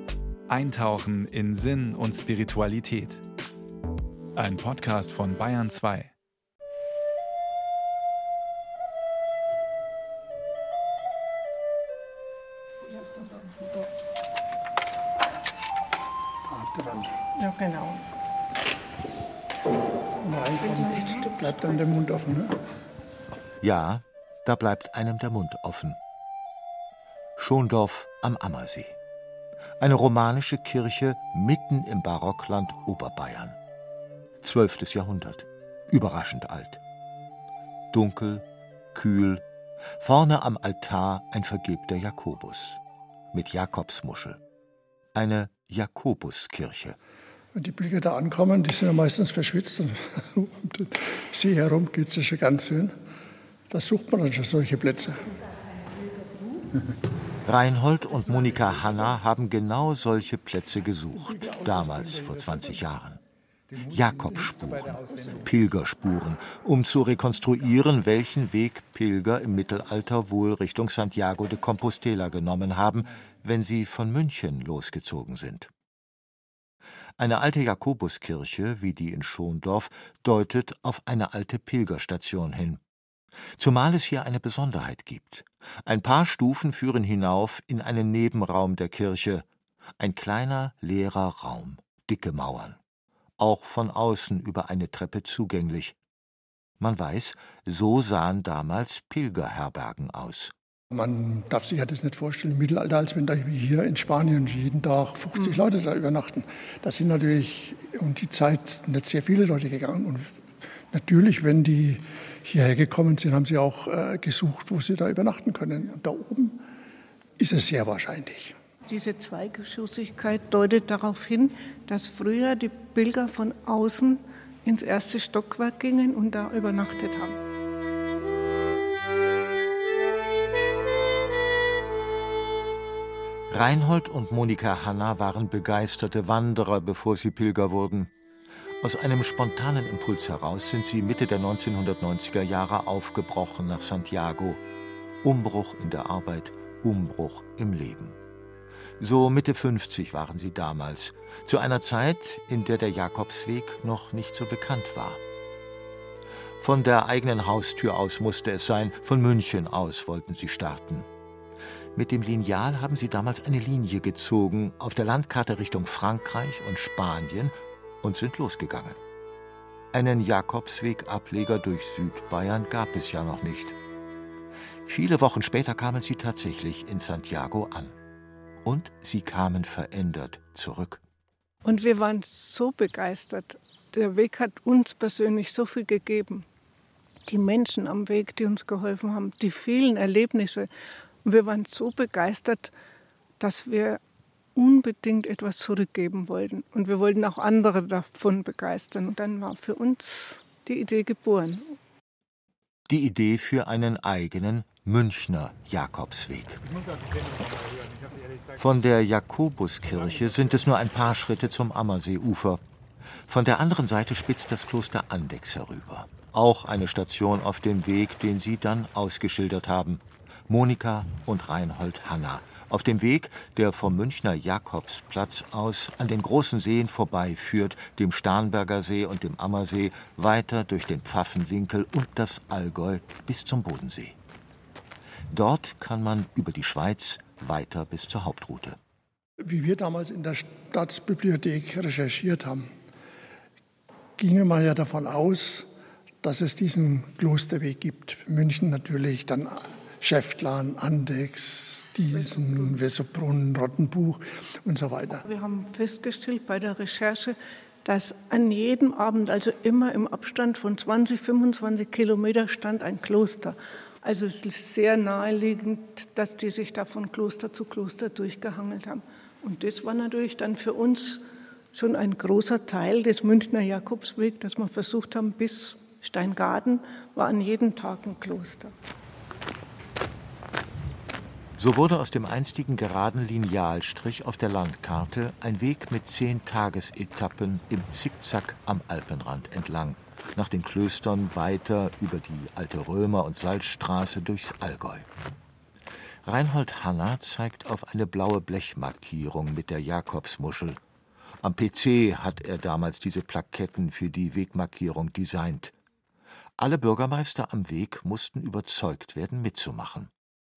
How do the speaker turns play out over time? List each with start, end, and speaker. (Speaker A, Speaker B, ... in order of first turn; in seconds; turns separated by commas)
Speaker A: 0.5-3.2, Speaker A: 4.3-6.1, Speaker B: 16.5-17.1, Speaker C: 17.4-18.0, Speaker B: 20.2-22.5, Speaker C: 20.6-22.3, Speaker D: 23.6-26.0, Speaker D: 27.4-28.9, Speaker D: 29.8-33.5, Speaker D: 34.4-36.8, Speaker D: 37.9-39.4, Speaker D: 40.0-42.8, Speaker D: 43.3-44.4, Speaker D: 45.1-47.0, Speaker B: 47.5-52.9, Speaker B: 53.7-55.2, Speaker D: 57.4-63.2, Speaker B: 61.1-62.8, Speaker D: 63.9-75.7, Speaker D: 77.2-82.8, Speaker D: 83.6-89.5, Speaker D: 90.0-92.8, Speaker D: 93.4-96.0, Speaker D: 96.8-100.5, Speaker B: 100.9-110.3, Speaker C: 105.3-105.6, Speaker B: 110.9-116.6, Speaker B: 117.4-118.5, Speaker C: 118.9-127.4, Speaker D: 133.5-138.1, Speaker D: 138.8-144.6, Speaker D: 145.2-148.2, Speaker D: 149.0-155.2, Speaker D: 156.6-161.1, Speaker D: 161.9-169.0, Speaker D: 169.9-173.8, Speaker D: 174.8-177.9, Speaker D: 178.6-181.0, Speaker C: 181.6-186.4, Speaker C: 187.2-190.7, Speaker C: 191.2-192.7, Speaker C: 193.4-194.0, Speaker C: 194.6-201.8, Speaker D: 202.9-206.6, Speaker D: 208.6-212.6, Speaker D: 213.3-234.2, Speaker D: 235.3-238.8, Speaker B: 239.4-242.7, Speaker B: 244.2-245.7, Speaker B: 246.2-255.2, Speaker C: 252.1-252.8, Speaker C: 255.2-271.2, Speaker C: 271.7-278.7, Speaker D: 281.6-295.1, Speaker D: 296.2-300.8, Speaker D: 301.4-305.7, Speaker D: 306.6-310.1